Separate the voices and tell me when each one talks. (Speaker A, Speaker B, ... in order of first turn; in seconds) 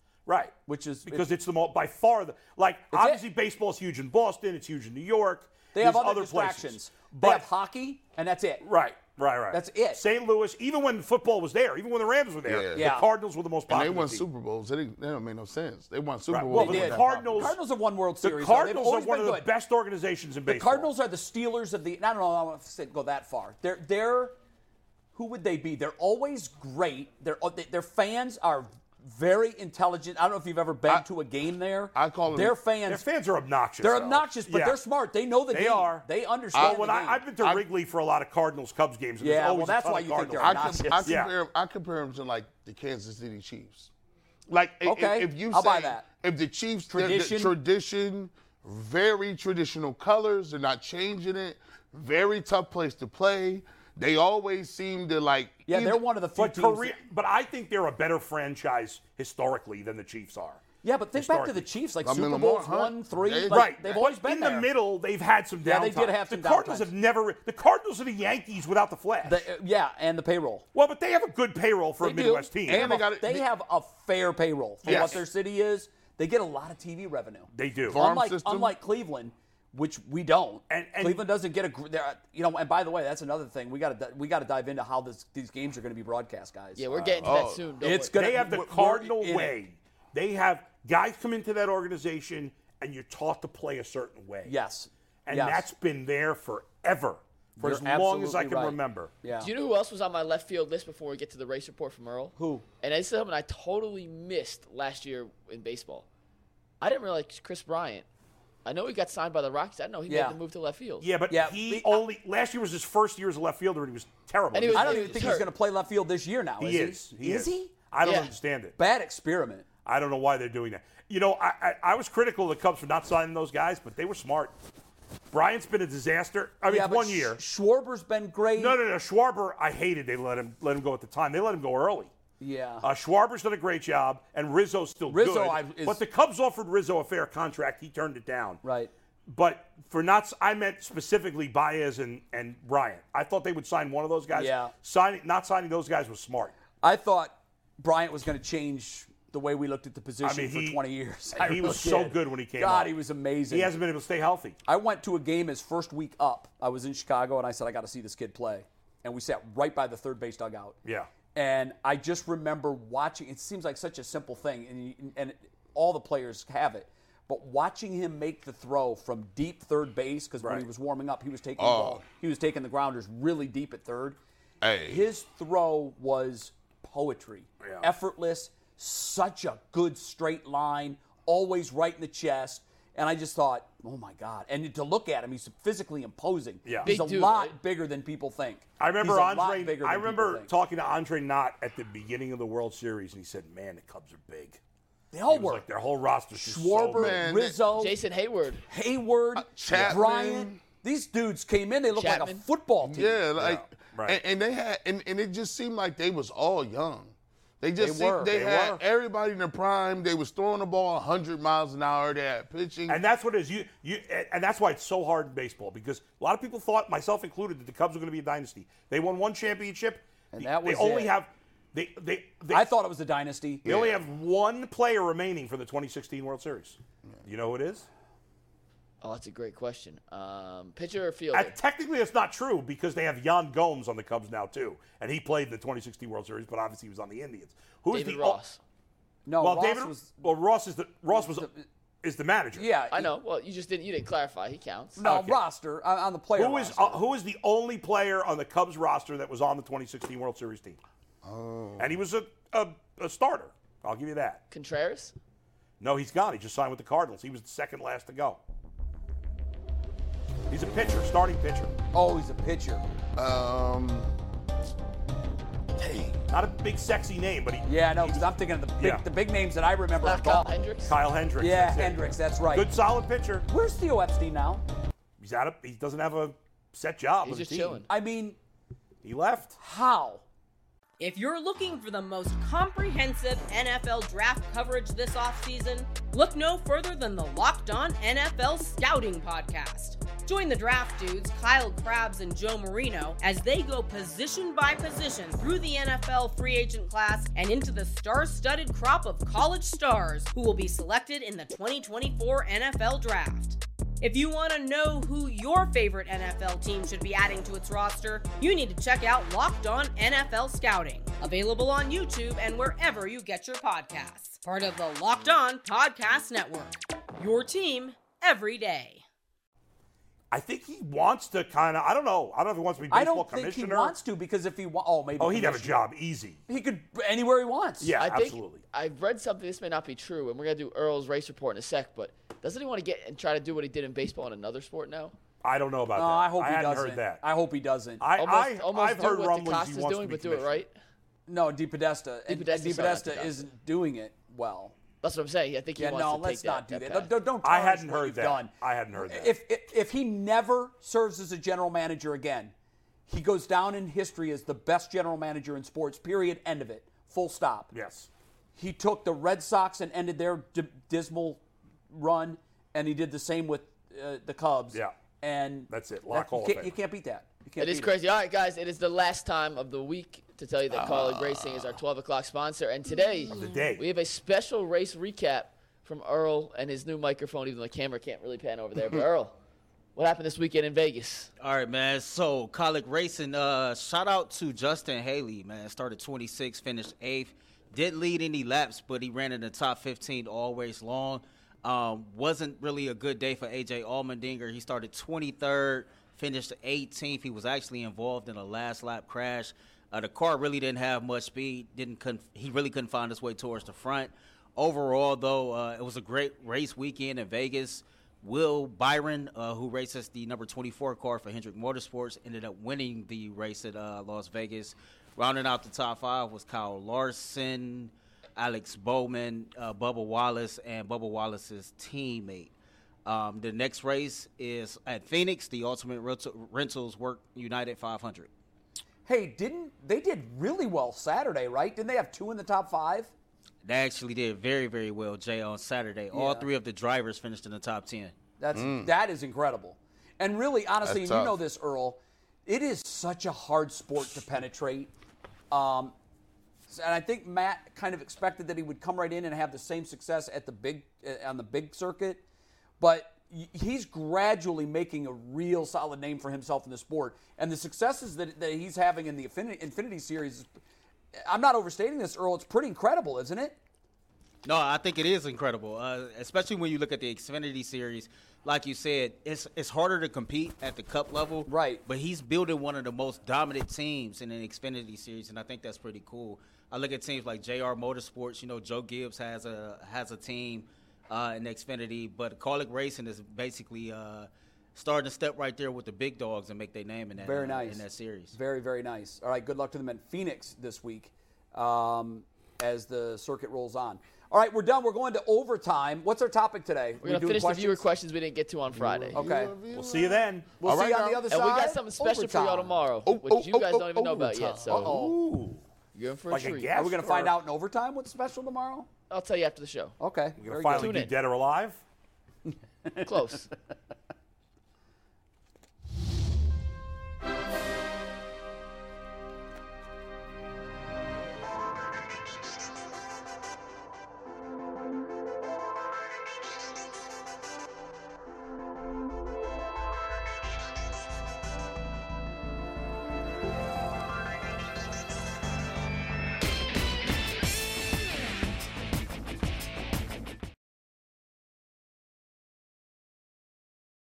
Speaker A: 0.2-0.6, 1.1-7.5, 8.6-14.2, 16.3-17.6, 18.2-20.9, 32.9-34.8, 35.5-41.3, 56.4-60.6, 61.1-61.6, 63.5-69.5, 70.7-72.9, 74.8-75.2, 77.5-78.0, 80.7-81.2, 88.1-94.5, 95.2-99.1, 111.0-115.4, 116.6-118.8, 119.8-124.5, 125.3-127.4, 128.5-132.1, 132.8-138.6, 139.3-146.5, 150.2-150.8, 151.3-152.9, 153.5-154.6, 160.8-161.1, 170.4-170.7, 177.6-177.9, 186.6-186.9, 188.8-194.6, 195.3-197.2, 203.4-204.2, 212.9-222.7, 223.6-227.8, 231.3-238.4, 239.4-241.5, 242.0-242.7, 245.0-245.4, 246.4-250.8, 251.8-254.4, 255.8-258.4, 260.5-261.7, 266.3-269.0, 270.9-273.5, 275.2-277.8, 279.0-279.6, 320.3-323.9, 325.2-326.4, 327.8-328.6, 335.4-337.2, 338.0-340.6, 347.4-349.3, 357.7-358.1, 365.7-366.8, 373.3-373.8, 499.7-500.5, 504.7-505.6, 506.3-507.4, 510.4-511.8
Speaker B: 0.7-1.2, 2.9-3.2, 5.7-8.6, 9.5-10.0, 12.7-13.1, 16.5-19.5, 20.5-24.4, 25.1-33.0, 33.8-37.2, 39.2-41.1, 44.8-46.0, 46.9-47.5, 55.7-56.9, 60.8-64.7, 65.6-66.9, 69.2-70.6, 72.0-89.5, 94.5-95.7, 97.6-99.5, 102.3-102.6, 110.1-110.4, 111.3-112.0, 114.7-117.7, 118.8-119.6, 126.7-128.8, 132.4-132.8, 135.1-136.0, 138.6-138.9, 144.3-144.7, 146.8-153.7, 154.7-160.8, 161.3-174.2, 174.8-190.5, 195.1-195.6, 196.3-197.9, 198.7-203.2, 207.8-208.8, 220.3-221.1, 222.5-223.7, 239.2-240.2, 241.1-241.6, 242.5-243.1, 245.0-247.0, 261.9-262.8, 267.6-270.5, 271.4-272.7, 273.5-274.6, 277.9-278.4, 279.6-280.2, 322.9-325.9, 326.5-327.9, 335.9-338.0, 341.3-344.7, 345.8-352.5, 353.1-357.7, 358.6-367.9, 429.1-433.1, 436.1-436.5, 438.4-444.9, 445.5-445.9, 446.7-452.2, 452.8-460.5, 461.2-463.6, 471.4-471.8, 487.2-497.8, 499.1-499.5, 500.6-502.7, 504.7-505.2, 506.7-508.9, 510.0-511.0
Speaker C: 12.4-12.9, 13.7-17.5, 31.9-32.6, 36.5-37.6, 40.4-43.9, 44.5-56.0, 62.0-64.0, 72.6-73.5, 74.8-75.2, 77.9-78.8, 87.2-87.7, 171.6-172.0, 174.6-175.1, 196.9-197.6, 199.3-200.6, 202.8-213.0, 223.6-223.9, 251.2-251.9, 263.1-264.1, 265.8-266.1, 370.7-371.8, 438.5-438.9, 440.8-441.4, 498.7-501.3, 503.0-504.9
Speaker D: 86.8-88.2, 99.4-106.1, 106.8-108.0, 108.6-111.1, 114.5-115.5, 118.0-118.3, 186.8-187.5, 197.7-198.6, 201.9-202.4, 229.0-231.5, 237.9-238.6, 242.9-245.0, 254.5-255.2, 270.0-270.9, 277.2-277.9, 328.0-335.1, 338.2-340.7, 342.3-343.4, 345.0-347.1, 367.6-379.3, 379.9-381.3, 497.0-499.2, 501.3-504.9, 505.9-506.7, 509.1-509.9, 510.7-511.1, 513.0-513.5
Speaker E: 281.0-319.0
Speaker F: 381.4-422.5, 423.1-428.3, 433.6-438.1, 464.4-488.4